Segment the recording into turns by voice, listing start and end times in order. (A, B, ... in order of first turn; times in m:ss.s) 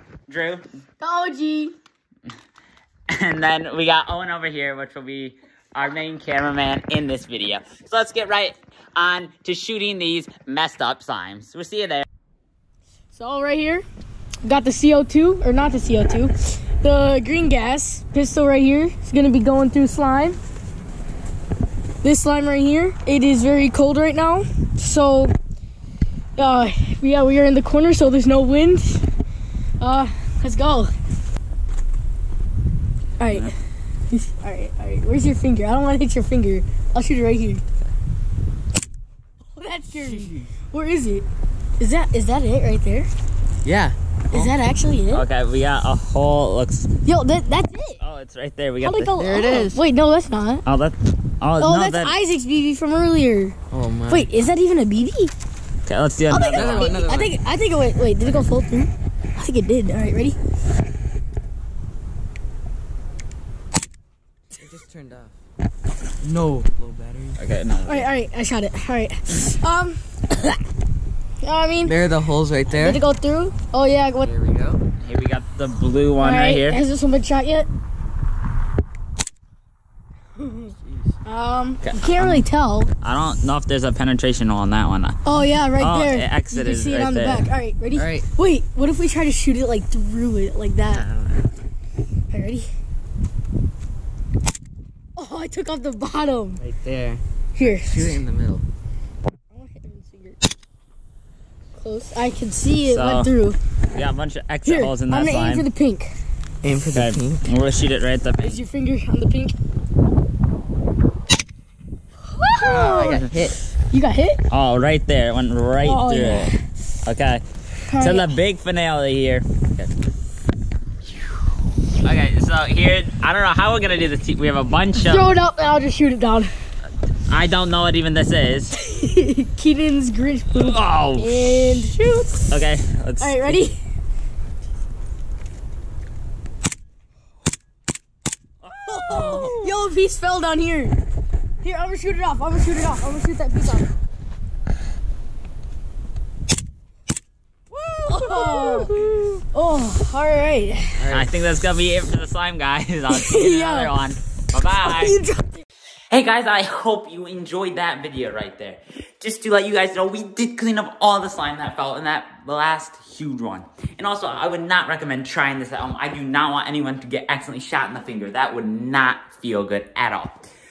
0:00.3-0:00.7 A
0:01.0-0:01.8 B
0:03.1-0:12.1 A
0:13.1-0:13.8 B
0:14.4-0:20.4 B
0:22.0-0:25.3 B
0:26.4-0:29.1 B
0:29.8-0:30.9 B
0:33.2-0:33.5 B
0:34.1-0:37.6 B
0:39.6-0:41.3 B
0:40.1-0:40.4 C
0:41.8-0:43.1 B
0:43.6-0:44.5 C
0:44.3-0:45.2 B
0:45.1-0:46.9 A
0:47.0-0:48.0 B
0:48.0-0:49.2 A
0:48.8-0:50.6 B
0:49.2-0:49.8 C
0:50.7-0:52.2 A
0:51.6-0:53.6 B
0:53.7-0:54.3 C
0:54.1-0:55.3 B
0:55.9-0:57.0 A
0:56.3-1:00.4 B
0:56.5-0:57.4 C
1:04.6-1:05.4 C
1:06.2-1:07.4 C
1:07.4-1:08.1 A
1:07.8-1:10.6 B
1:11.4-1:12.0 B
1:11.8-1:13.0 C
1:12.8-1:14.3 B
1:14.2-1:14.8 C
1:15.0-1:16.8 A
1:16.2-1:17.7 B
1:20.4-1:20.7 B
1:21.2-1:22.9 B
1:21.8-1:22.5 A
1:23.0-1:25.2 A
1:25.2-1:31.1 B
1:25.8-1:27.4 A
1:27.9-1:28.2 C
1:30.9-1:31.4 A
1:32.3-1:32.7 B
1:35.2-1:36.6 B
1:36.6-1:38.6 C
1:37.6-1:38.2 B
1:39.5-1:40.4 B
1:41.8-1:43.6 B
1:42.8-1:43.3 A
1:43.9-1:45.7 A
1:44.6-1:46.1 B
1:46.6-1:47.5 C
1:46.9-1:48.6 A
1:48.4-1:49.6 B
1:52.4-1:53.3 B
1:52.6-1:53.6 C
1:53.9-1:54.4 B
1:54.5-1:57.4 A
1:55.8-1:56.6 B
1:57.8-1:58.3 B
1:58.0-1:59.9 A
2:02.0-2:05.3 A
2:05.0-2:06.5 B
2:07.3-2:08.8 A
2:08.8-2:12.5 B
2:10.6-2:11.3 A
2:12.5-2:13.6 A
2:13.2-2:13.8 B
2:18.6-2:19.7 A
2:19.0-2:21.0 B
2:21.6-2:23.9 B
2:27.8-2:29.0 C
2:28.1-2:31.1 B
2:31.0-2:31.3 C
2:31.1-2:35.2 A
2:33.1-2:33.9 B
2:34.8-2:35.6 B
2:36.1-2:50.4 A